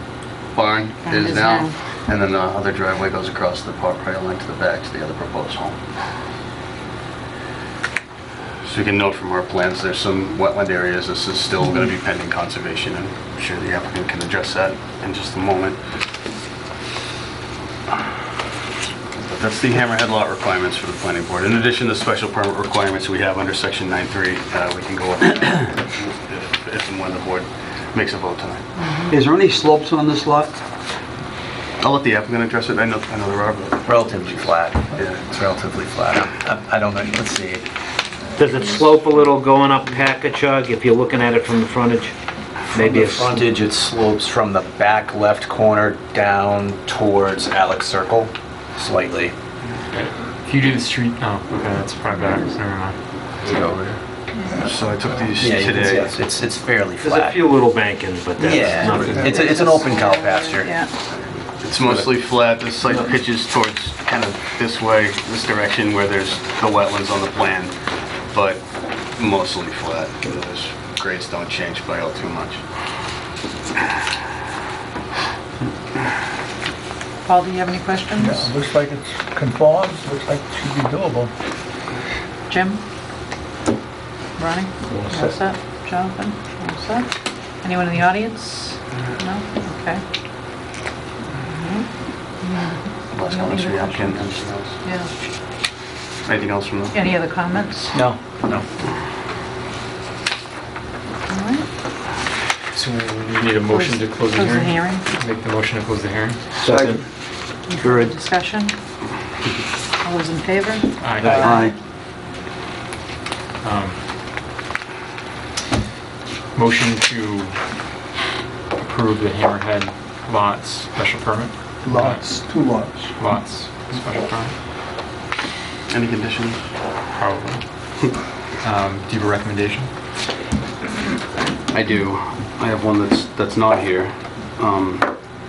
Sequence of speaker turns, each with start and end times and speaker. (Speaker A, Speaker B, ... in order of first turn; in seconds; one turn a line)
Speaker A: 0.5-5.8
Speaker B: 1.1-1.7
Speaker A: 8.6-15.8
Speaker A: 19.2-28.6
Speaker B: 28.8-29.1
Speaker C: 29.1-30.5
Speaker A: 31.8-35.2
Speaker D: 33.9-37.7
Speaker E: 38.4-42.1
Speaker E: 42.7-43.4
Speaker D: 42.7-49.3
Speaker F: 49.9-53.0
Speaker A: 54.6-56.1
Speaker D: 55.4-57.4
Speaker E: 57.0-59.9
Speaker D: 58.4-60.8
Speaker B: 59.2-60.9
Speaker A: 61.6-67.7
Speaker D: 61.8-62.1
Speaker A: 68.3-72.6
Speaker B: 77.2-78.5
Speaker G: 78.2-81.3
Speaker B: 82.5-82.8
Speaker B: 84.4-87.1
Speaker B: 87.6-90.0
Speaker B: 91.4-91.9
Speaker B: 92.4-95.1
Speaker A: 93.1-94.8
Speaker A: 96.2-97.0
Speaker B: 96.9-98.0
Speaker B: 101.3-101.7
Speaker F: 102.7-106.4
Speaker B: 103.7-105.0
Speaker C: 106.7-107.0
Speaker E: 106.7-107.0
Speaker B: 107.7-108.7
Speaker B: 110.0-111.5
Speaker F: 111.0-111.7
Speaker C: 111.2-111.7
Speaker F: 113.6-114.0
Speaker F: 116.5-117.5
Speaker F: 118.8-122.5
Speaker G: 121.8-123.1
Speaker F: 123.2-124.5
Speaker A: 125.9-126.7
Speaker F: 127.1-129.9
Speaker A: 131.7-135.1